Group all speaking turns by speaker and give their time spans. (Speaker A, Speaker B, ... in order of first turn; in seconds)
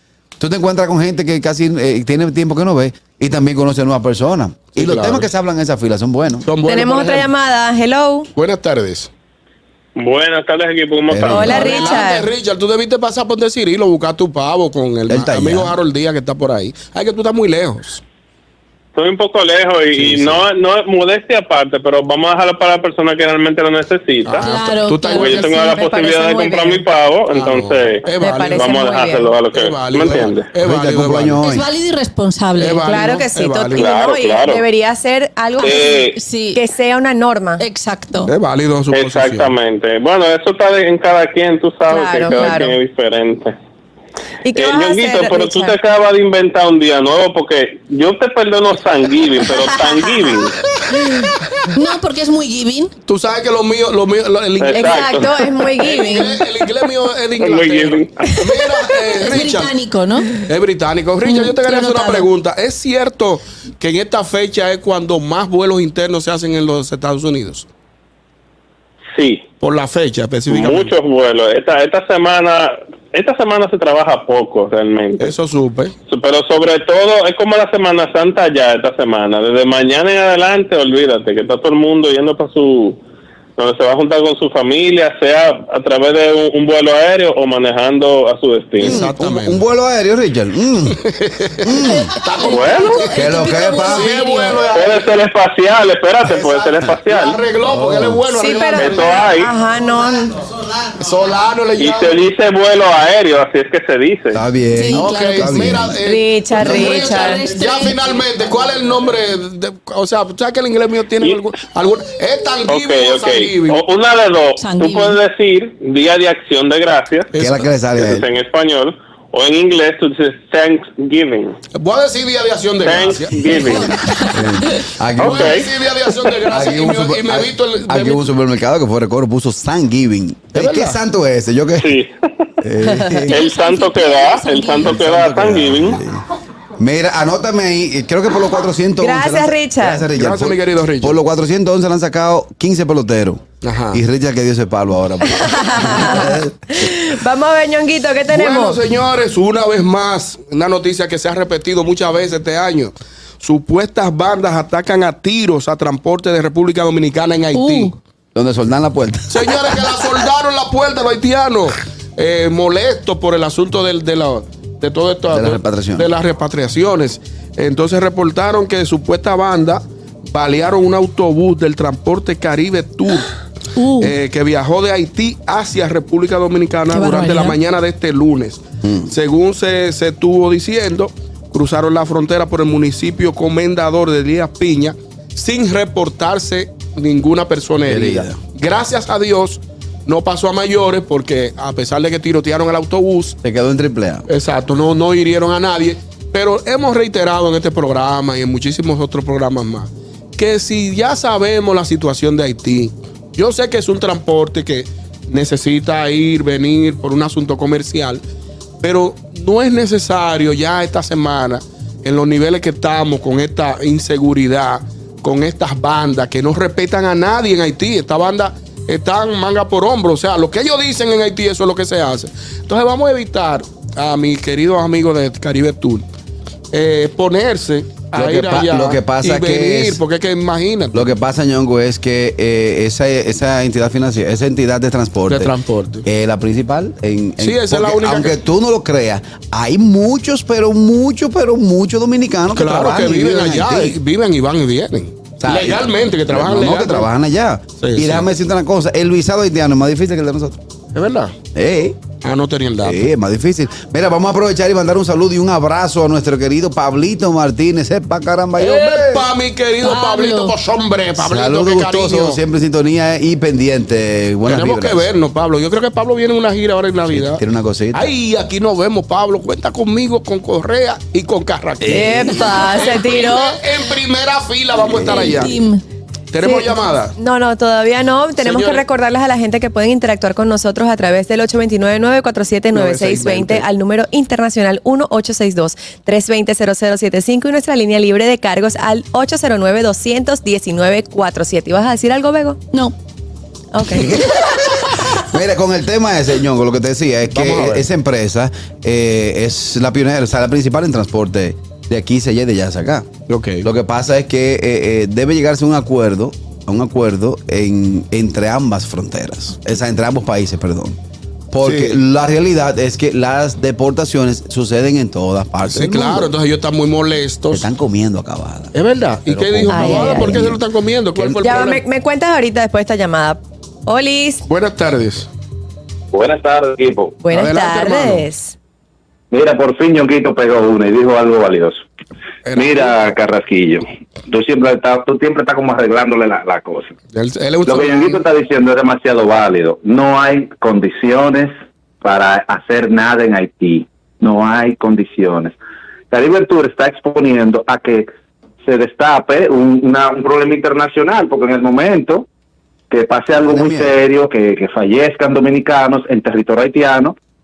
Speaker A: 0.4-6.5, 11.1-11.7, 15.1-15.8, 30.0-31.6, 88.8-91.0, 91.6-92.1, 93.1-94.1, 97.6-98.2, 104.3-106.0, 117.4-118.2, 123.6-125.7, 126.5-131.9, 132.6-133.4, 134.8-136.2, 136.8-146.5, 158.3-159.9, 165.3-166.1, 178.8-179.1, 187.8-188.4, 193.4-194.2, 228.1-230.0, 230.9-235.5, 236.1-244.0, 245.4-250.6, 251.5-252.0, 252.8-259.3, 261.2-265.1, 267.1-268.1, 271.8-272.6, 274.8-275.5, 295.1-303.1, 303.6-311.0, 311.5-316.3, 317.5-318.7, 319.3-320.6, 353.5-354.0
Speaker B: 4.7-5.3, 6.4-7.3, 8.3-9.1, 11.4-18.0, 19.9-20.4, 24.2-25.4, 27.3-28.6, 29.5-31.4, 32.6-33.9, 38.3-39.5, 53.1-59.8, 60.4-67.7, 69.6-70.9, 75.2-75.9, 88.8-89.6, 91.0-93.3, 93.9-95.3, 96.2-99.3, 101.0-102.2, 104.9-113.8, 117.3-117.8, 121.7-124.0, 125.2-128.2, 130.5-131.0, 140.2-141.2, 143.6-144.0, 148.3-158.0, 159.3-173.3, 174.0-193.3, 194.3-208.2, 208.8-226.1, 226.7-231.1, 235.3-236.0, 237.4-238.4, 242.5-247.1, 247.8-248.3, 250.9-251.3, 252.2-253.1, 258.6-262.4, 264.4-267.4, 267.9-275.5, 276.3-277.1, 278.4-278.8, 282.7-283.6, 297.3-297.9, 303.3-303.7, 311.6-312.0, 315.6-317.7, 318.7-321.8, 324.4-325.3, 327.3-328.2, 332.4-333.0, 337.1-338.2
Speaker C: 6.7-8.3, 11.3-12.3, 25.3-26.9, 28.2-29.4, 32.8-37.6, 41.9-42.8, 44.4-45.8, 49.4-50.4, 54.7-56.7, 58.6-58.9, 98.3-100.4, 106.0-107.5, 132.9-133.1, 139.0-140.1, 145.3-148.8, 271.9-273.6, 276.4-292.6, 293.7-294.6, 319.7-320.4, 321.4-324.4, 327.2-328.5
Speaker D: 9.9-11.9, 18.9-24.5, 25.2-30.4, 33.8-34.6, 35.6-36.1, 38.9-43.5, 44.5-50.5, 54.6-55.2, 57.4-58.1, 69.1-69.4, 70.5-75.3, 76.1-83.0, 83.6-89.0, 94.7-97.3, 98.8-99.5, 101.8-104.4, 112.7-117.3, 118.0-121.5, 122.9-123.9, 125.2-125.5, 131.8-132.1, 133.5-136.0
Speaker E: 24.4-25.8, 31.4-32.9, 35.7-36.6, 37.6-38.3, 51.7-52.9, 59.1-60.3, 61.2-62.3, 91.9-94.7, 104.7-105.9, 106.7-108.0, 114.6-115.2, 124.0-124.7, 133.3-135.1, 157.5-157.9, 173.8-174.1, 176.9-177.6, 259.8-260.5, 275.0-275.8
Speaker F: 326.1-327.1, 329.3-331.8, 332.5-336.9, 337.6-345.5, 346.1-348.1, 348.6-352.2, 352.9-357.1